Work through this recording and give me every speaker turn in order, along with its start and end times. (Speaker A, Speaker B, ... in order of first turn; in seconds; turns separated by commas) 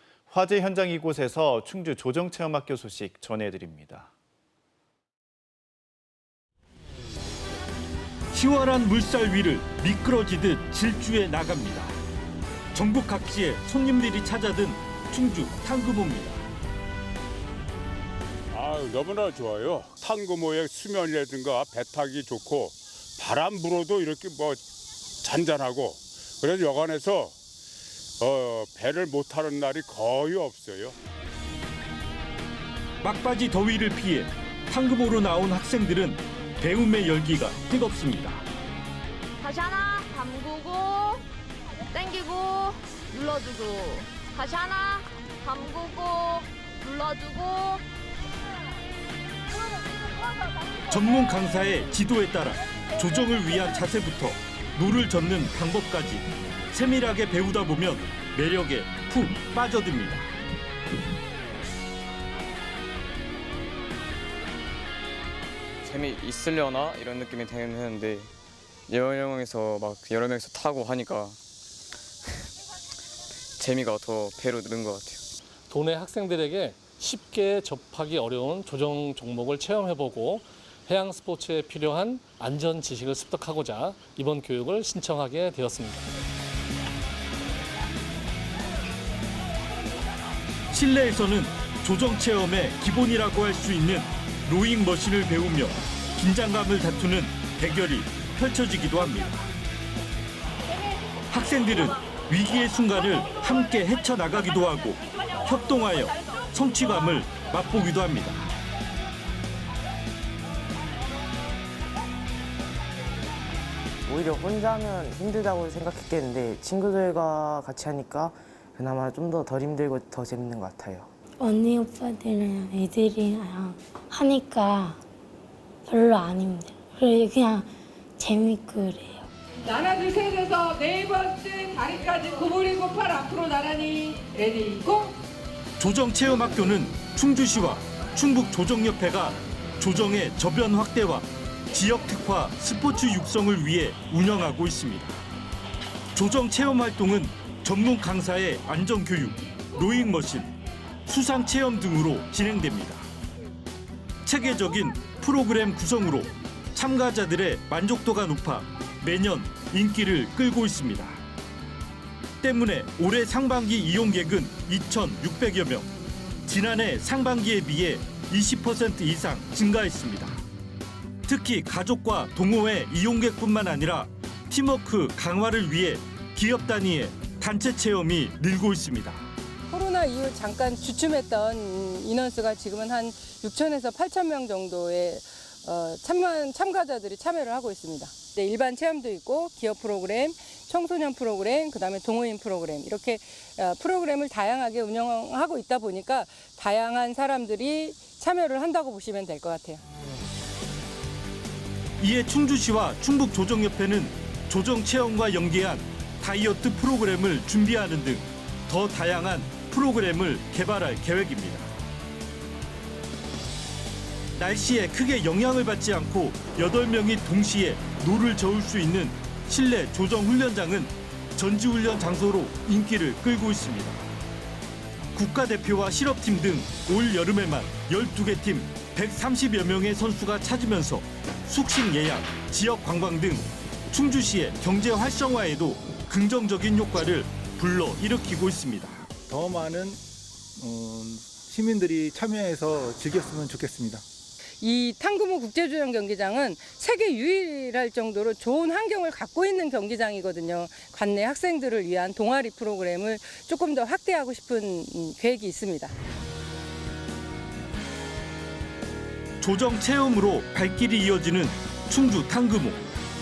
Speaker A: 0.3-4.1, Speaker B: 8.3-12.0, Speaker B: 12.7-16.4, Speaker C: 18.5-24.6, Speaker C: 25.2-27.4, Speaker C: 28.2-30.9, Speaker B: 33.0-38.5, Speaker D: 39.4-41.2, Speaker D: 41.9-47.8, Speaker B: 50.9-60.3, Speaker E: 65.8-68.3, Speaker E: 68.9-71.4, Speaker E: 73.6-75.2, Speaker F: 75.7-86.1, Speaker B: 90.7-99.5, Speaker B: 101.3-108.5, Speaker G: 114.1-121.1, Speaker H: 121.4-125.0, Speaker H: 125.9-129.3, Speaker I: 129.6-135.2, Speaker B: 135.8-145.2, Speaker B: 146.1-150.5, Speaker B: 151.1-153.1, Speaker B: 154.2-161.2, Speaker B: 162.4-165.9, Speaker B: 166.5-170.4, Speaker B: 171.3-179.3, Speaker I: 179.7-199.8, Speaker B: 202.0-211.7, Speaker B: 214.3-224.0, Speaker B: 225.1-239.1, Speaker J: 239.3-240.0, Speaker J: 240.6-244.0, Speaker I: 244.6-255.9, Speaker B: 259.4-262.8